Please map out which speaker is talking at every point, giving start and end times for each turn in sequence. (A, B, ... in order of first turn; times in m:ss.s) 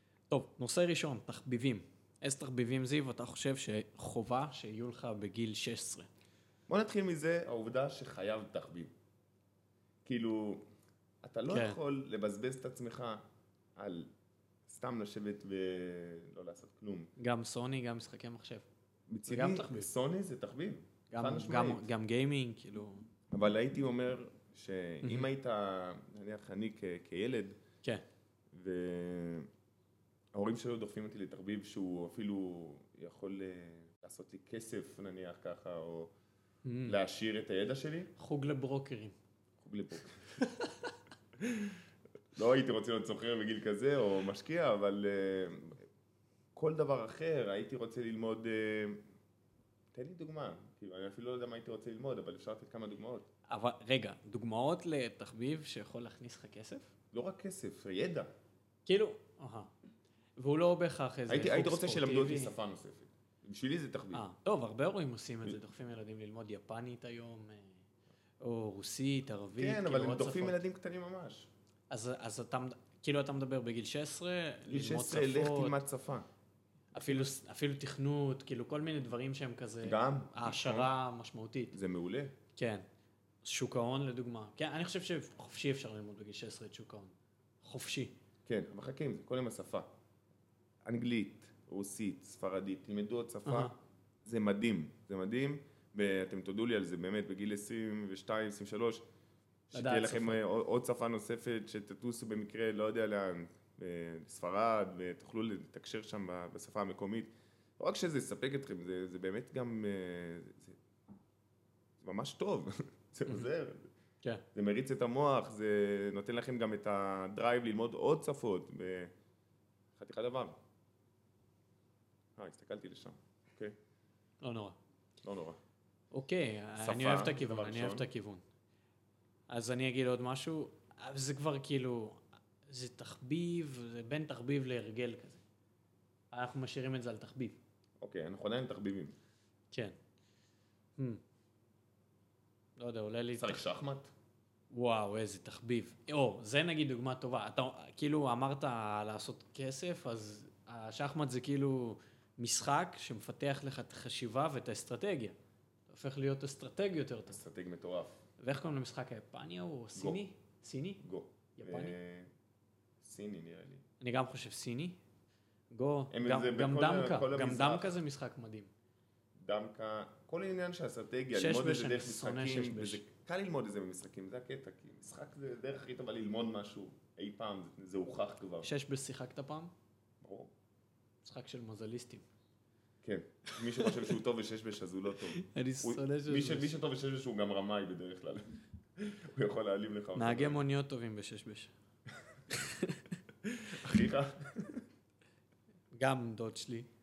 0:00.3-0:06.1 A
0:06.7-0:08.9 B
0:10.0-0:10.6 B
0:11.2-0:13.2 B
0:11.5-0:11.8 A
0:13.8-0:14.1 B
0:14.7-0:17.1 B
0:17.2-0:18.6 A
0:19.1-0:21.8 B
0:19.2-0:19.9 A
0:21.1-0:23.0 A
0:23.3-0:27.6 B
0:25.0-0:25.3 A
0:28.5-0:29.5 B
0:30.3-0:36.1 B
0:36.6-0:37.0 A
0:36.8-0:38.1 B
0:38.2-0:39.1 A
0:39.6-0:40.4 B
0:40.4-0:40.9 A
0:41.4-0:41.8 B
0:42.3-0:45.8 B
0:46.5-0:49.0 B
0:49.9-0:53.3 B
0:53.5-0:56.9 A
0:57.1-0:58.3 B
0:58.8-0:59.7 A
1:00.4-1:02.5 A
1:01.3-1:04.2 B
1:04.1-1:07.8 A
1:08.4-1:10.6 A
1:09.5-1:11.5 B
1:11.9-1:15.8 A
1:14.7-1:16.3 B
1:16.9-1:21.8 A
1:17.0-1:17.3 B
1:19.8-1:20.9 B
1:21.7-1:22.3 B
1:22.6-1:22.8 A
1:23.4-1:28.1 A
1:28.4-1:29.9 B
1:30.8-1:33.7 B
1:33.4-1:33.7 A
1:34.2-1:39.0 B
1:39.7-1:50.8 B
1:39.7-1:40.4 A
1:52.0-1:53.9 B
1:54.5-1:59.1 B
2:00.0-2:00.6 B
2:02.4-2:03.8 B
2:04.4-2:04.8 A
2:05.2-2:05.6 B
2:06.1-2:08.4 A
2:06.8-2:08.1 B
2:09.5-2:15.4 A
2:16.3-2:17.6 A
2:18.0-2:19.2 B
2:22.8-2:23.6 A
2:23.3-2:24.1 B
2:24.7-2:35.4 A
2:35.9-2:37.4 A
2:37.3-2:38.2 B
2:38.4-2:41.0 A
2:41.0-2:42.3 B
2:41.6-2:42.0 A
2:43.0-2:43.8 B
2:44.0-2:45.0 A
2:45.7-2:48.7 A
2:46.1-2:48.0 B
2:49.4-2:58.7 B
2:51.3-2:53.0 A
2:58.6-2:59.7 A
3:00.2-3:00.5 B
3:01.2-3:02.2 A
3:03.0-3:10.6 B
3:03.6-3:04.1 A
3:05.3-3:06.7 A
3:10.1-3:11.7 A
3:12.5-3:13.2 A
3:13.4-3:14.8 B
3:15.9-3:16.9 A